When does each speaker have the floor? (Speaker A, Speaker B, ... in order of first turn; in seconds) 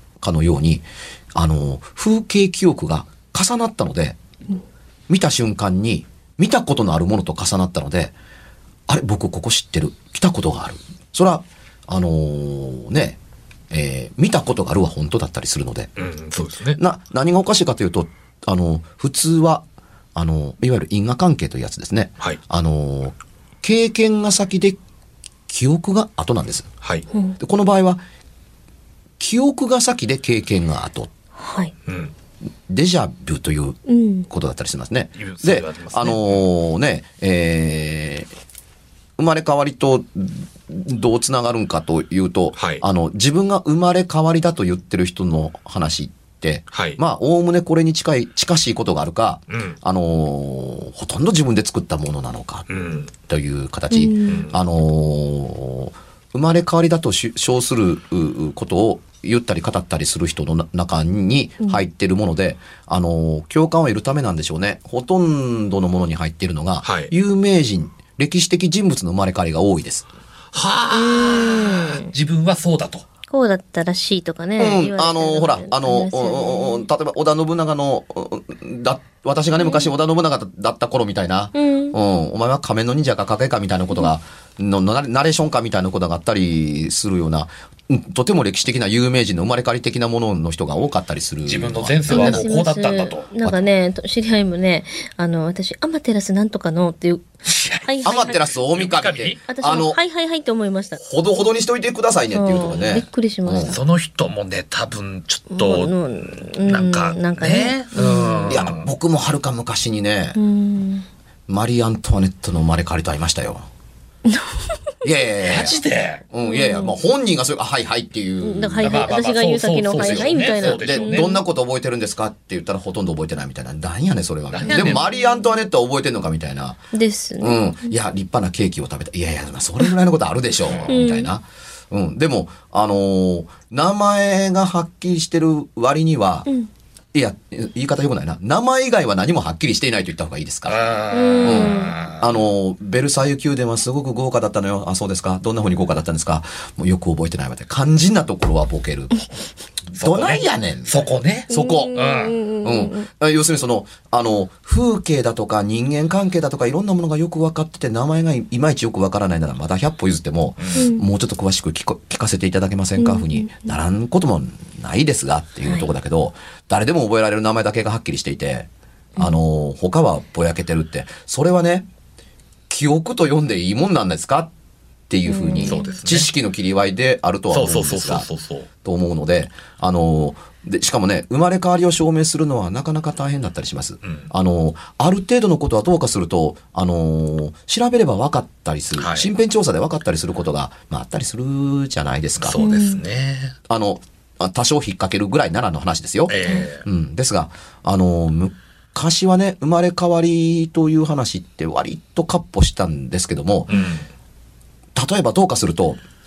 Speaker A: 0.2-4.2, 5.1-8.1, 8.9-13.2, 13.7-15.9, 16.7-24.8, 25.5-26.7, 27.4-28.0, 29.2-31.1, 32.7-38.3, 39.2-52.7, 53.2-70.1, 74.6-92.5, 98.0-100.0, 101.0-103.8, 108.5-110.4, 111.5-113.7, 115.0-119.1, 119.9-126.8, 127.4-136.5, 137.1-140.8, 141.4-149.2, 149.9-152.0, 152.6-171.9, 172.7-174.5, 175.1-178.3, 178.8-192.6, 193.7-203.8, 204.9-206.0
Speaker B: 16.0-16.8, 26.8-27.1, 31.9-32.1, 35.2-36.4, 42.6-42.8, 46.7-47.0, 49.5-49.8, 52.7-53.1, 54.3-54.6, 66.8-67.1, 70.5-73.0, 91.5-93.5, 97.5-99.4, 103.7-108.9, 115.4-116.2, 118.8-121.3, 124.5-125.0, 130.7-131.0, 140.7-142.4, 149.9-152.4, 160.6-160.9, 175.6-176.3, 177.5-178.7, 188.9-189.3, 192.4-193.6, 196.3-196.8, 203.7-204.1
Speaker C: 31.4-31.7, 33.9-34.3, 53.9-54.4, 61.6-61.8, 70.9-72.1, 73.3-76.8, 79.6-79.9, 81.5-82.0, 92.1-98.4, 99.5-101.0, 102.3-103.8, 105.5-108.6, 110.3-111.1, 114.3-114.6, 116.4-117.0, 118.4-121.4, 124.7-125.5, 126.9-127.6, 130.9-131.3, 141.1-142.0, 151.5-153.1, 160.8-161.1, 163.0-163.7, 175.3-175.9, 192.6-193.0